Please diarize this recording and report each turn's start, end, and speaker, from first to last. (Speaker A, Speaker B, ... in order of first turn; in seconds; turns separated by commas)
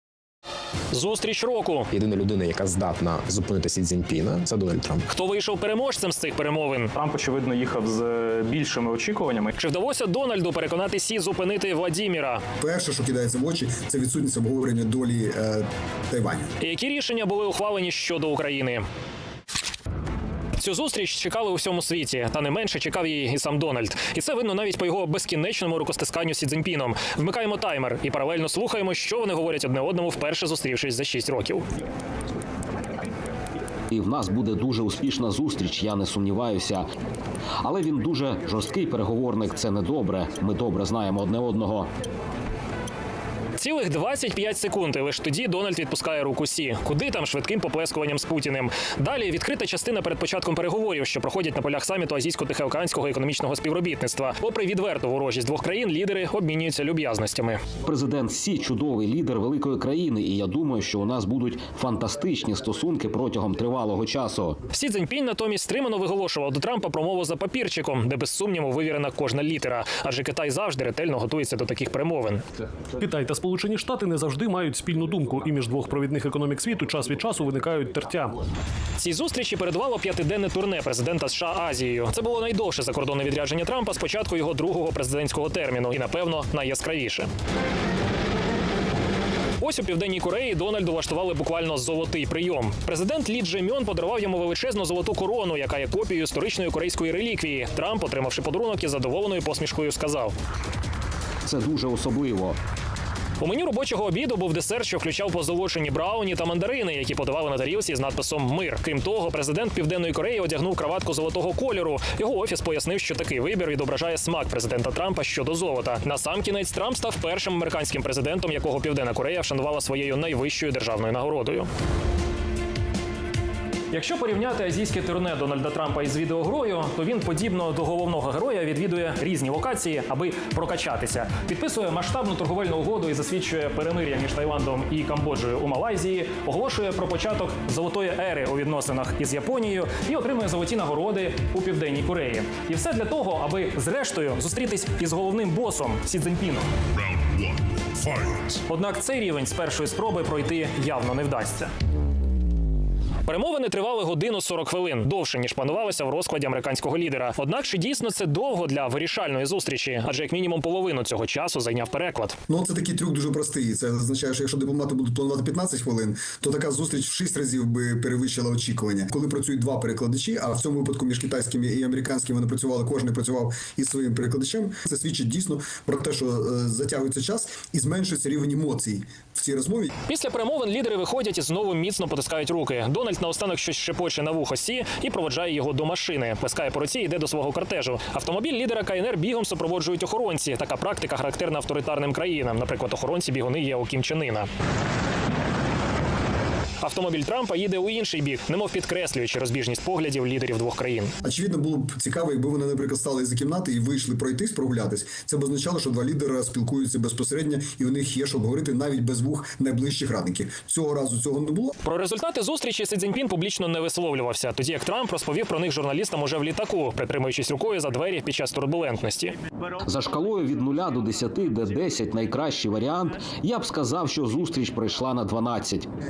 Speaker A: 0.9-1.9, Speaker B: 1.9-5.1, Speaker A: 5.1-6.9, Speaker C: 7.0-9.5, Speaker A: 9.6-12.4, Speaker D: 12.6-16.5, Speaker A: 16.6-18.8, Speaker A: 20.6-31.6, Speaker E: 33.9-36.9, Speaker E: 37.6-41.9, Speaker A: 43.6-57.6, Speaker E: 57.8-64.6, Speaker A: 64.7-72.4, Speaker F: 73.0-78.3, Speaker A: 79.0-87.3, Speaker A: 89.6-100.3, Speaker E: 101.5-102.6, Speaker A: 103.4-121.7, Speaker A: 123.9-146.7, Speaker A: 148.0-151.7, Speaker A: 153.3-162.4, Speaker D: 162.5-179.9, Speaker A: 180.1-194.5, Speaker A: 196.8-201.1, Speaker D: 201.2-211.8, Speaker A: 211.8-219.4, Speaker E: 219.8-225.9